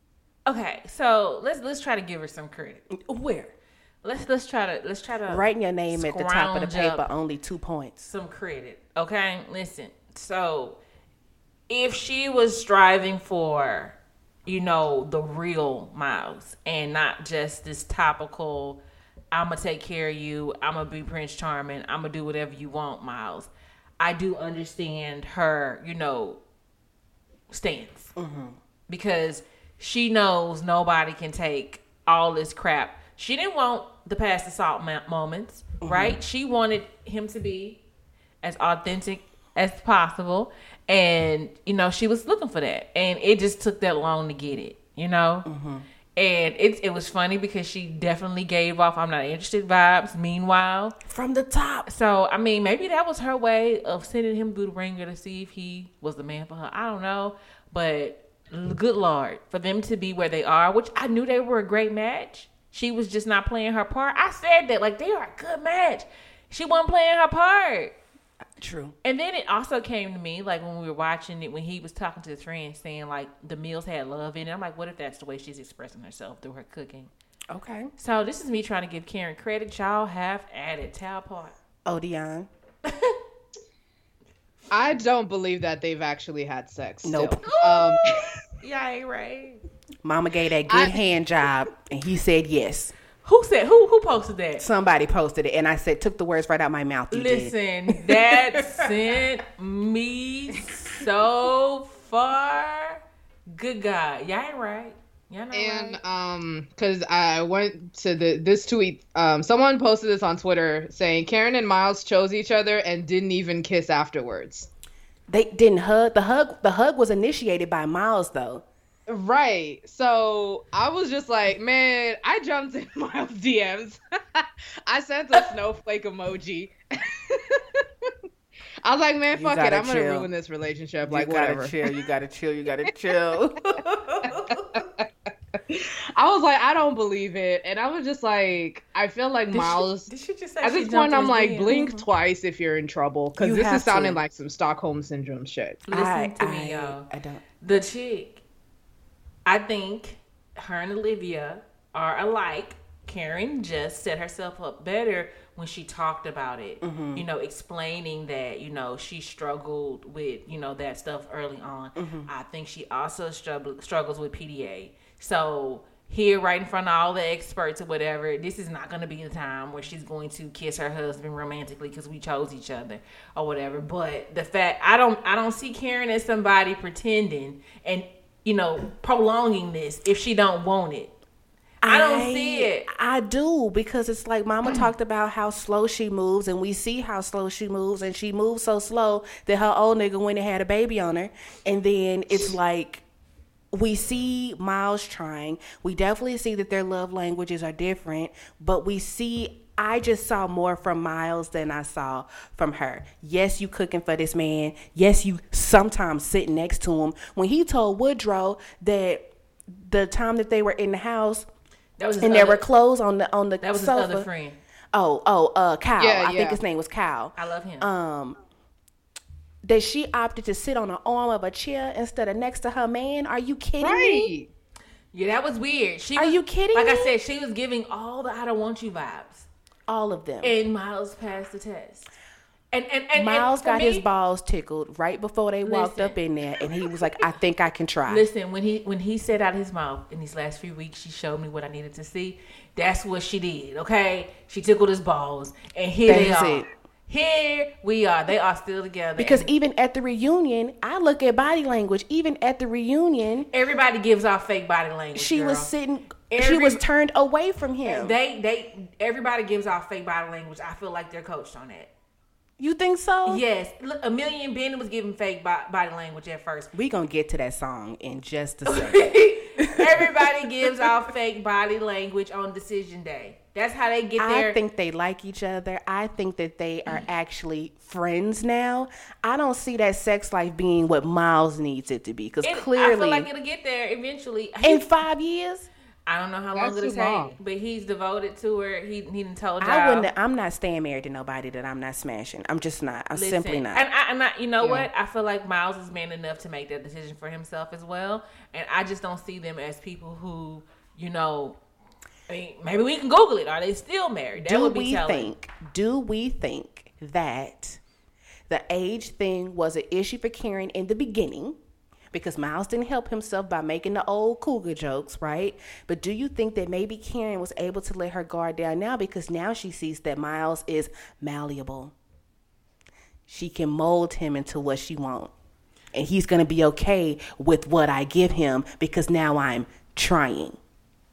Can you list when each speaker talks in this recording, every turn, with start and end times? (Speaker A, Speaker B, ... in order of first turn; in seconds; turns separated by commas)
Speaker A: 0.5-2.9, Speaker B: 2.9-3.5, Speaker A: 4.0-7.0, Speaker B: 5.3-8.1, Speaker A: 8.1-10.8, Speaker A: 11.7-18.8, Speaker A: 19.3-26.4, Speaker A: 27.5-28.1, Speaker B: 28.2-28.6, Speaker A: 28.9-37.8, Speaker B: 35.8-36.2, Speaker A: 38.4-45.5, Speaker B: 45.5-45.9, Speaker A: 46.2-51.0, Speaker B: 51.0-51.9, Speaker A: 51.9-67.9, Speaker B: 68.6-68.9, Speaker A: 69.0-77.1, Speaker B: 77.5-77.9, Speaker A: 78.0-81.5, Speaker B: 81.9-82.5, Speaker A: 82.9-83.2, Speaker C: 84.7-88.2, Speaker B: 87.0-87.4, Speaker A: 87.5-89.6, Speaker B: 90.0-92.9, Speaker C: 90.7-91.0, Speaker A: 93.2-94.7, Speaker B: 94.6-98.9, Speaker A: 97.1-103.0, Speaker A: 103.5-106.0, Speaker C: 105.5-114.7, Speaker B: 115.3-118.6, Speaker C: 119.1-128.1, Speaker C: 128.8-131.7, Speaker B: 129.3-130.3, Speaker B: 131.1-134.8, Speaker C: 134.3-140.1, Speaker A: 139.5-141.8, Speaker B: 140.2-140.6, Speaker C: 140.6-145.8, Speaker B: 141.7-142.0, Speaker B: 143.4-144.2, Speaker A: 145.9-147.1, Speaker B: 145.9-147.4, Speaker A: 147.6-148.4, Speaker A: 149.5-181.1, Speaker B: 156.8-157.2, Speaker B: 162.0-162.3, Speaker B: 181.8-193.0, Speaker A: 181.8-182.9, Speaker B: 193.7-211.5, Speaker A: 212.0-212.7, Speaker B: 212.2-214.3, Speaker A: 213.6-214.6, Speaker B: 214.9-218.4, Speaker C: 216.0-216.6, Speaker A: 217.4-217.9, Speaker B: 219.6-224.3, Speaker C: 223.8-224.5, Speaker A: 225.1-229.5, Speaker B: 226.2-227.1, Speaker B: 229.9-230.5, Speaker A: 230.4-232.1, Speaker A: 232.7-234.1, Speaker B: 233.2-238.3, Speaker A: 235.6-236.2, Speaker A: 238.1-249.5, Speaker B: 246.1-246.7, Speaker B: 249.2-253.5, Speaker A: 253.5-255.7, Speaker B: 255.2-258.2, Speaker A: 256.3-256.8, Speaker A: 257.9-261.9, Speaker B: 262.6-263.4, Speaker A: 263.3-266.7, Speaker B: 266.7-270.3, Speaker A: 268.7-274.6, Speaker B: 274.2-283.3, Speaker A: 282.4-284.9, Speaker B: 284.6-285.7, Speaker A: 286.1-290.1, Speaker C: 286.5-287.3, Speaker B: 289.6-293.9, Speaker A: 293.1-301.6, Speaker C: 294.6-294.9, Speaker A: 302.3-305.3, Speaker B: 304.4-307.8, Speaker B: 308.5-311.6, Speaker B: 312.1-321.9, Speaker B: 323.3-325.3, Speaker B: 325.9-330.6